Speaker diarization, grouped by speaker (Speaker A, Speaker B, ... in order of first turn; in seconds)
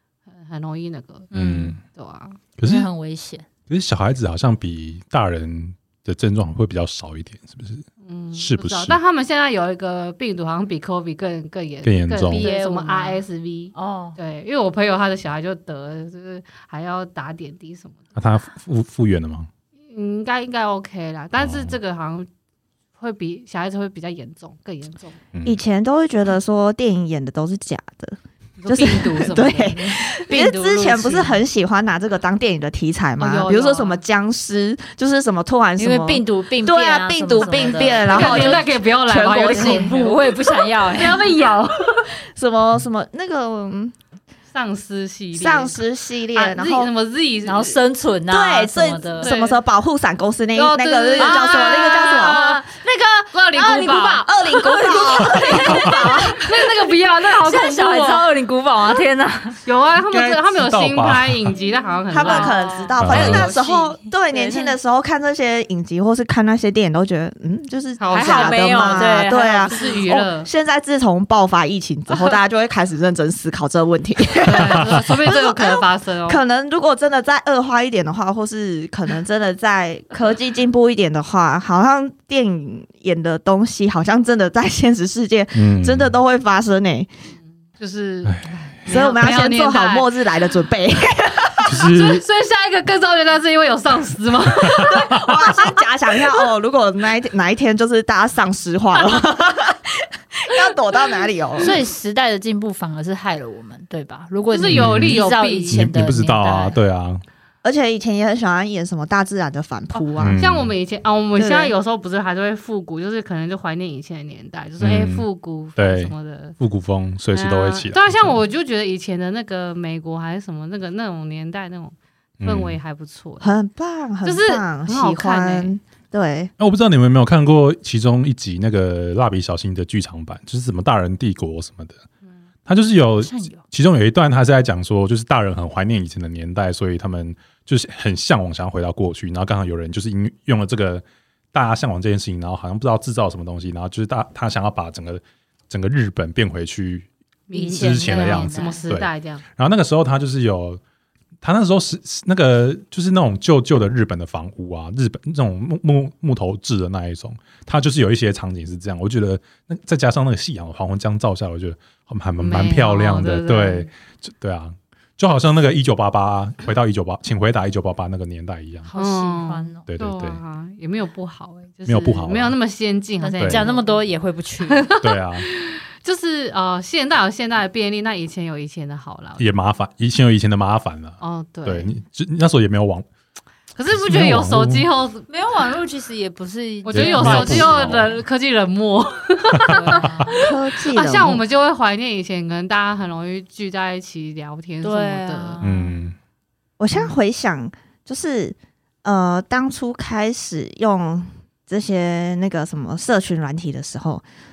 Speaker A: 0.3-2.4, 8.0-18.0, 19.9-22.3, 23.0-25.2, 28.6-30.1, 33.2-34.0, 37.4-42.1, 44.5-47.8, 49.2-49.6, 50.5-52.6, 53.3-54.2, 56.4-58.3, 59.6-63.6, 68.0-70.5, 74.4-76.4, 87.8-90.1, 91.8-95.7, 104.5-105.8, 110.3-116.5, 117.3-123.5, 124.2-125.7, 147.5-149.4, 162.4-163.9, 168.9-174.0, 174.7-179.4, 181.2-181.9, 183.8-185.2, 186.8-195.6
Speaker B: 1.3-1.7, 2.6-3.5, 12.2-13.2, 13.7-14.2, 30.3-31.4, 35.8-41.3, 47.4-49.3, 51.2-56.6, 57.3-59.6, 62.1-64.8, 68.1-70.0, 101.6-106.8, 133.2-133.6, 147.5-148.8, 168.8-169.8, 173.2-174.9, 185.3-188.0, 189.7-190.4, 194.8-196.0
Speaker C: 1.3-1.8, 2.6-2.9, 3.7-9.0, 11.8-12.5, 18.1-19.5, 21.4-21.8, 25.3-25.6, 60.1-61.6, 63.0-63.5, 74.6-75.0, 85.5-86.1, 91.7-92.2, 94.6-95.1, 104.7-107.2, 110.2-110.7, 114.8-115.2, 115.8-118.4, 122.4-122.8, 126.6-132.0, 132.7-147.1, 147.7-150.8, 151.4-168.9, 169.9-170.4, 171.9-172.6, 173.4-173.7, 175.0-175.4, 179.4-183.1, 183.9-184.9, 186.9-188.2, 189.6-190.0, 195.6-196.2
Speaker D: 25.4-40.1, 42.2-43.9, 45.3-46.9, 48.3-52.5, 54.2-56.5, 62.1-87.1, 88.9-91.8, 94.6-101.7, 107.6-110.4, 111.4-111.7, 123.4-126.5, 190.3-191.4, 196.8-204.2